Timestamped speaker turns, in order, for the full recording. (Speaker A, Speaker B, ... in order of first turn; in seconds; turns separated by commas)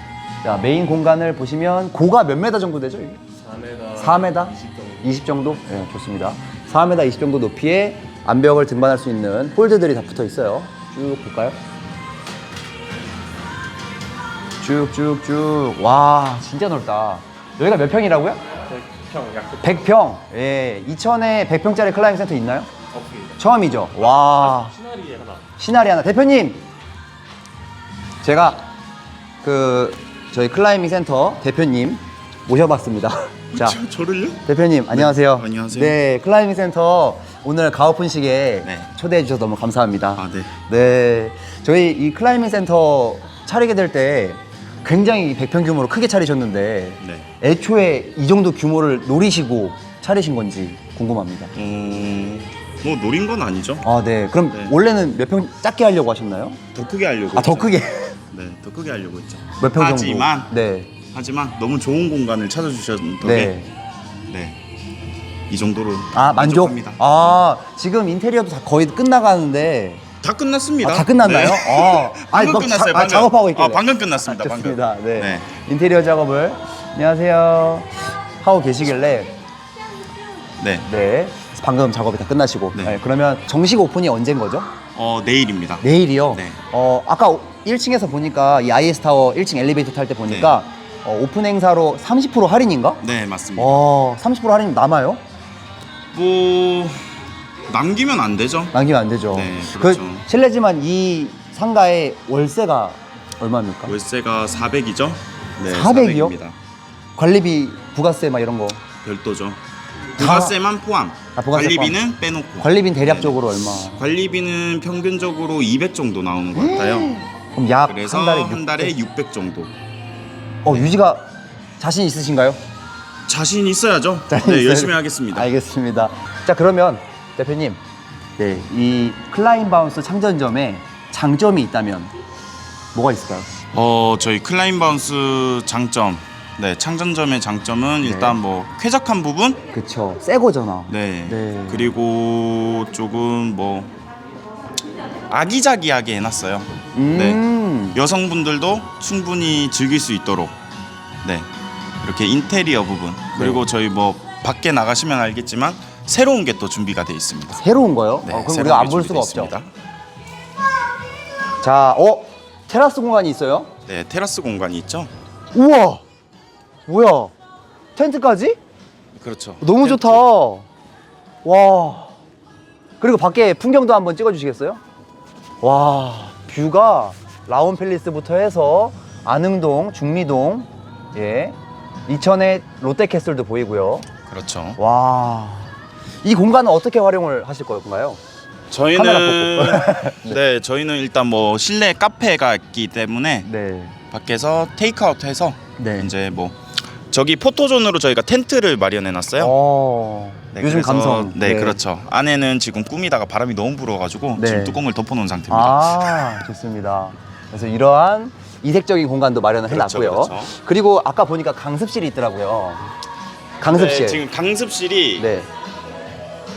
Speaker A: 0.4-3.2, Speaker B: 3.4-4.0, Speaker A: 3.9-11.6, Speaker B: 4.7-5.0, Speaker A: 14.6-18.4, Speaker B: 18.7-19.6, Speaker A: 19.6-22.7, Speaker A: 23.4-24.8, Speaker B: 24.8-25.4, Speaker A: 25.6-26.6, Speaker A: 28.2-28.7, Speaker A: 29.4-33.8, Speaker C: 33.5-36.0, Speaker A: 34.4-51.5, Speaker C: 40.2-40.5, Speaker C: 47.0-47.3, Speaker C: 51.5-53.8, Speaker A: 53.8-56.6, Speaker C: 56.7-57.8, Speaker A: 57.3-58.2, Speaker C: 58.3-60.5, Speaker A: 59.6-60.9, Speaker C: 61.1-63.5, Speaker A: 63.2-63.7, Speaker C: 64.3-64.6, Speaker C: 65.5-67.0, Speaker A: 66.1-70.0, Speaker C: 70.2-75.5, Speaker A: 70.8-77.9, Speaker A: 78.4-79.3, Speaker C: 80.6-80.9, Speaker A: 80.8-84.7, Speaker C: 82.7-83.0, Speaker C: 84.9-86.6, Speaker A: 85.8-93.0, Speaker C: 90.3-90.6, Speaker C: 93.0-93.8, Speaker A: 93.6-95.2, Speaker C: 96.1-97.1, Speaker C: 97.7-98.7, Speaker A: 98.7-103.9, Speaker C: 99.3-100.2, Speaker C: 103.9-106.6, Speaker A: 105.7-106.4, Speaker A: 107.2-108.8, Speaker C: 109.0-109.6, Speaker A: 110.2-110.6, Speaker C: 110.2-117.2, Speaker A: 111.3-112.0, Speaker A: 112.6-114.0, Speaker A: 116.5-118.9, Speaker C: 117.9-119.7, Speaker A: 120.6-122.6, Speaker C: 123.3-125.5, Speaker A: 124.3-127.8, Speaker A: 128.4-132.1, Speaker A: 132.9-133.5, Speaker C: 133.7-139.6, Speaker A: 138.0-138.4, Speaker A: 139.7-141.9, Speaker C: 140.9-143.9, Speaker C: 145.3-147.4, Speaker A: 146.9-148.0, Speaker C: 147.9-150.6, Speaker C: 152.0-157.6, Speaker A: 153.3-153.6, Speaker A: 157.6-159.6, Speaker C: 158.2-159.7, Speaker A: 161.6-163.7, Speaker C: 163.9-165.1, Speaker A: 165.5-166.0, Speaker A: 166.9-167.3, Speaker A: 167.9-168.6, Speaker C: 169.2-170.2, Speaker A: 169.6-170.7, Speaker A: 171.4-172.1, Speaker A: 173.0-174.8, Speaker A: 175.6-184.1, Speaker C: 184.3-184.8, Speaker A: 184.8-188.2, Speaker C: 188.7-193.5, Speaker A: 188.9-190.4, Speaker A: 193.4-193.9, Speaker C: 194.1-199.5, Speaker A: 195.8-196.1, Speaker A: 199.4-201.8, Speaker C: 200.5-206.3, Speaker A: 204.4-204.8, Speaker A: 205.5-212.8, Speaker C: 209.7-210.5, Speaker A: 213.6-214.2, Speaker C: 213.7-215.3, Speaker A: 215.2-215.5